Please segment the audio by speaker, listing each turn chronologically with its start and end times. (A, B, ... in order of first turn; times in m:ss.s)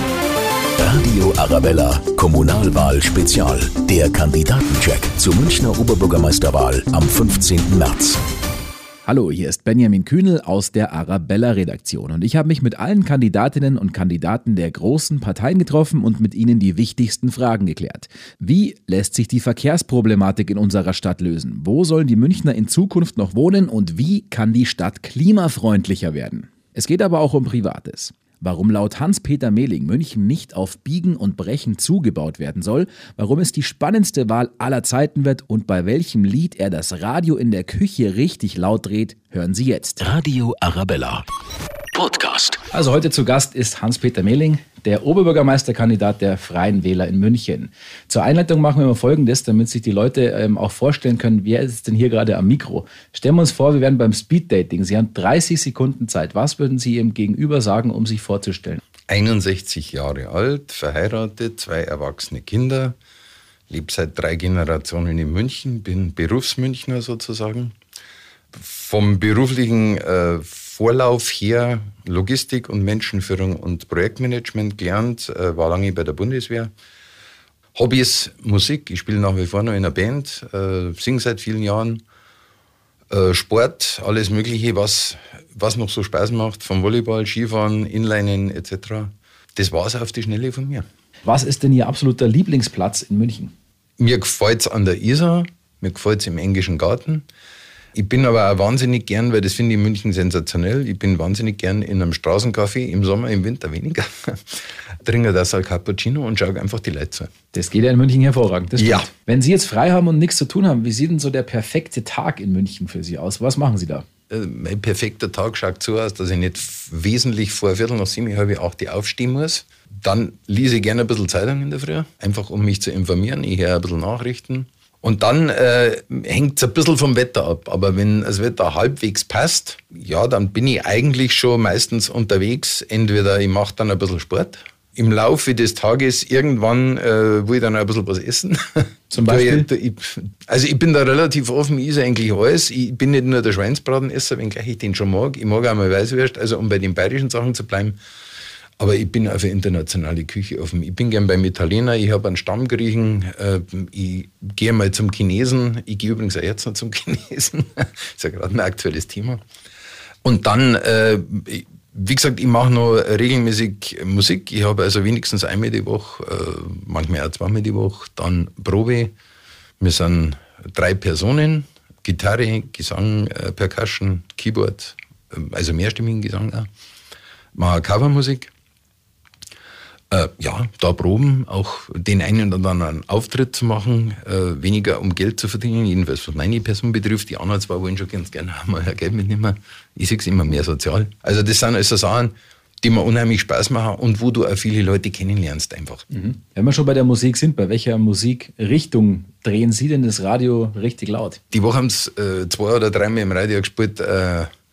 0:00.8-0:08.2 A
0:09.0-0:40.0 B
0:40.0-0:41.2 A
0:41.9-0:42.6 A
0:42.7-0:58.8 B
0:59.1-1:03.0 C
1:03.7-1:07.7 C
1:08.5-1:16.7 C
1:17.7-1:22.0 C
1:23.1-1:30.8 C
1:31.2-1:33.5 B
1:34.0-1:37.2 C
1:37.9-1:47.3 C
1:47.5-1:54.0 B
1:48.8-1:49.1 C
1:54.3-2:28.0 C
2:19.1-2:19.7 B
2:28.8-2:39.4 C
2:40.2-2:49.1 C
2:49.8-2:56.7 C
2:57.5-2:58.5 C
3:00.1-3:16.0 C
3:16.1-3:21.4 B
3:21.5-3:24.5 C